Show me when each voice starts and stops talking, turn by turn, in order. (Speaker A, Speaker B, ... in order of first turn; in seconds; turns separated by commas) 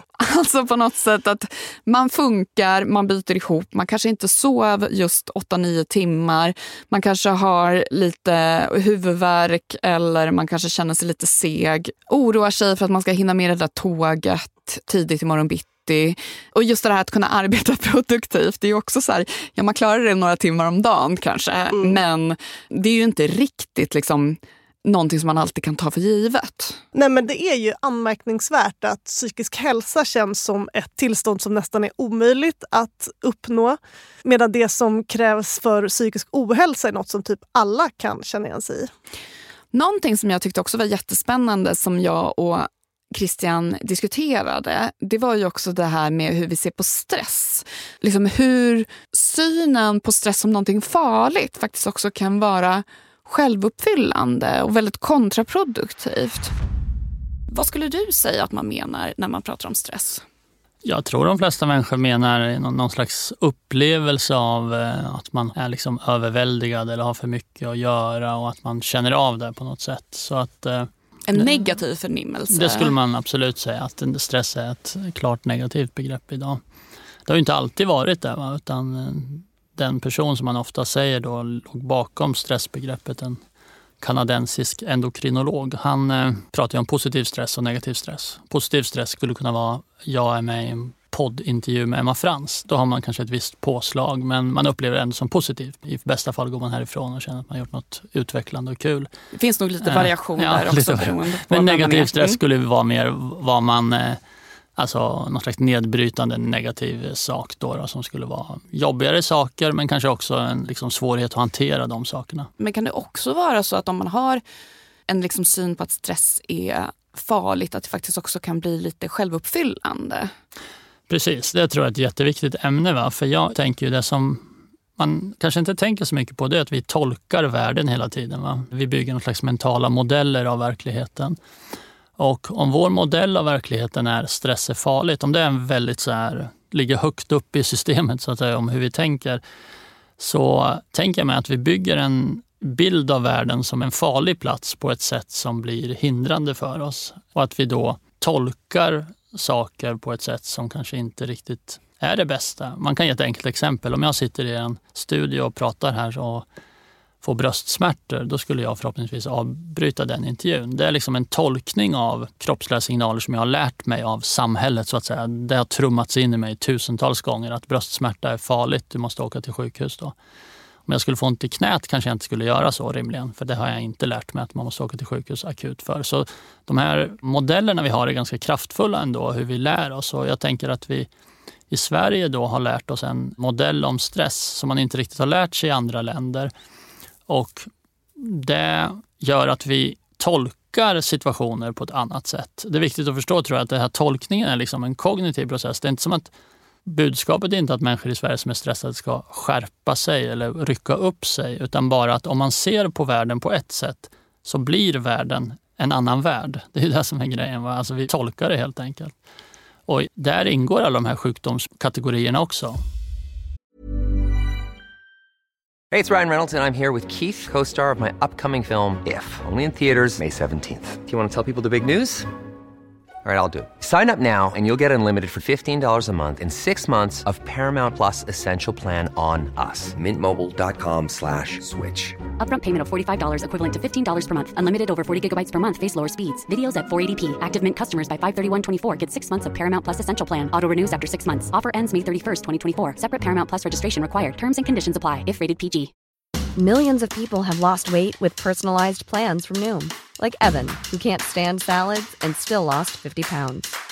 Speaker A: 0.2-26.8, Speaker B: 26.9-38.9, Speaker A: 39.7-56.5, Speaker A: 57.5-60.2, Speaker C: 60.8-71.7, Speaker A: 71.3-72.9, Speaker C: 72.5-76.6, Speaker C: 77.3-83.4, Speaker C: 84.0-99.1, Speaker A: 99.3-102.4, Speaker C: 99.8-104.2, Speaker C: 104.8-112.5, Speaker A: 112.6-114.4, Speaker A: 115.1-120.3, Speaker C: 121.1-131.4, Speaker C: 132.2-139.4, Speaker C: 140.2-156.5, Speaker C: 157.2-170.1, Speaker C: 170.9-181.1, Speaker C: 181.7-186.5, Speaker C: 187.3-196.3, Speaker C: 196.9-209.2, Speaker C: 209.9-212.8, Speaker D: 215.9-222.3, Speaker D: 223.2-232.2, Speaker E: 232.3-245.9, Speaker F: 246.6-253.7